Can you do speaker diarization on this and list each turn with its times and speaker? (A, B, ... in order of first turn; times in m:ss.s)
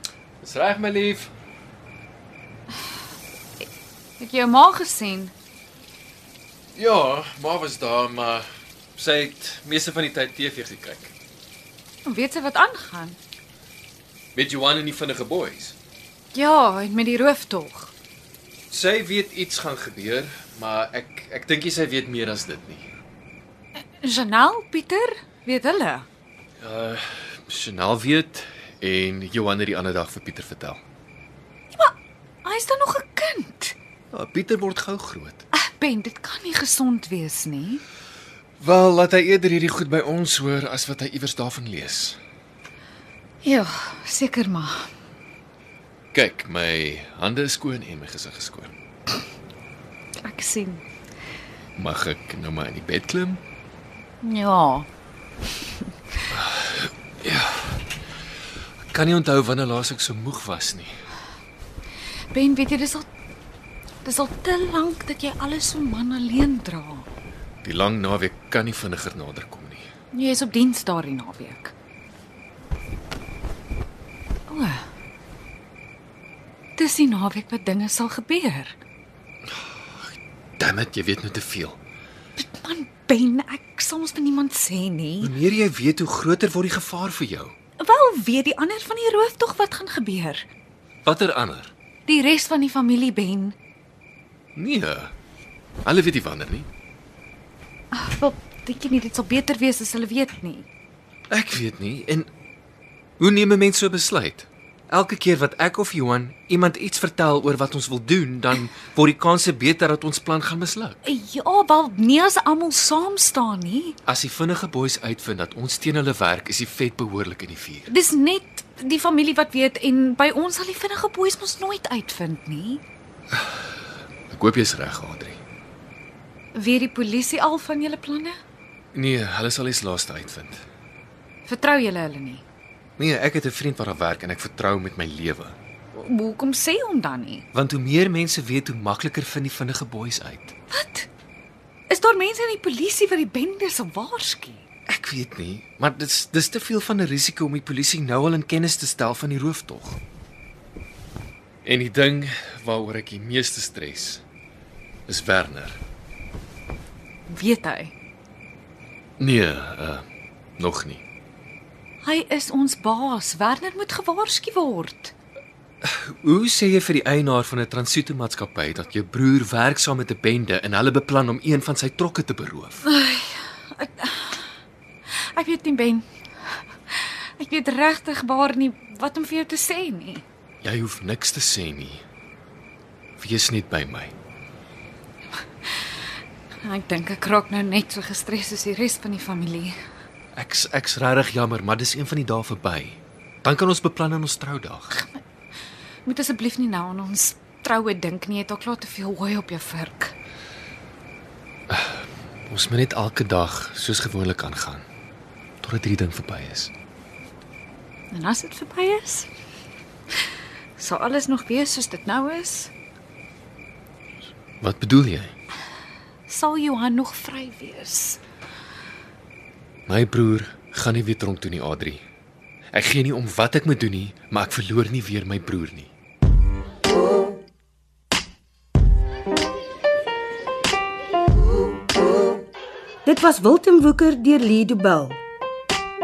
0:00.4-0:01.3 A
0:04.2-0:05.3 B
0:06.7-0:11.1 A
0:12.0-0:13.2 B
0:14.3-0:15.8 A
0:16.3-0:17.9 B
0:18.7-0:22.8 A
0:24.0-0:26.0 B
0:26.6-0:30.8 A
0:31.7-0:33.8 B
0:34.1-0:35.4 A
0:35.5-0:37.8 B
0:38.6-0:42.2 A
0:43.4-0:44.9 B
0:46.1-0:48.7 A
0:50.2-0:50.8 B
0:51.8-0:53.4 A
0:54.2-0:54.9 B
0:56.3-0:57.8 A
0:58.9-1:00.9 A
1:02.3-1:03.1 B
1:04.0-1:07.0 B
1:07.6-1:09.8 A
1:10.1-1:11.7 B
1:14.5-1:14.8 B
1:16.8-1:18.8 B
1:20.6-1:21.8 A
1:22.4-1:25.3 B
1:25.2-1:27.5 A
1:27.8-1:30.4 B
1:31.0-1:31.7 A
1:32.1-1:33.6 B
1:34.6-1:35.1 A
1:35.8-1:36.7 A
1:37.9-1:40.7 B
1:41.3-1:42.3 A
1:43.2-1:51.0 A
1:51.0-1:54.0 B
1:54.1-1:57.9 A
1:57.9-2:02.8 B
2:04.3-2:05.4 A
2:06.5-2:08.4 B
2:08.9-2:10.6 A
2:11.4-2:12.4 B
2:13.0-2:15.6 A
2:15.9-2:17.4 B
2:17.5-2:20.5 A
2:20.7-2:21.1 B
2:21.9-2:24.6 B
2:24.9-2:30.0 A
2:31.6-2:34.2 A
2:35.1-2:35.8 A
2:37.3-2:37.9 B
2:39.2-2:40.0 A
2:40.6-2:41.0 A
2:42.0-2:45.1 B
2:45.8-2:52.8 A
2:52.8-2:54.5 B
2:55.2-2:56.0 B
2:56.9-3:00.2 B
3:00.6-3:02.0 A
3:03.2-3:04.1 A
3:06.6-3:09.8 B
3:10.3-3:15.0 A
3:16.0-3:20.1 B
3:21.7-3:24.8 A
3:25.6-3:26.7 A
3:28.1-3:29.3 B
3:30.8-3:32.7 B
3:34.6-3:35.3 A
3:36.3-3:38.2 B
3:39.9-3:42.0 A
3:42.7-3:45.9 A
3:53.0-3:55.2 C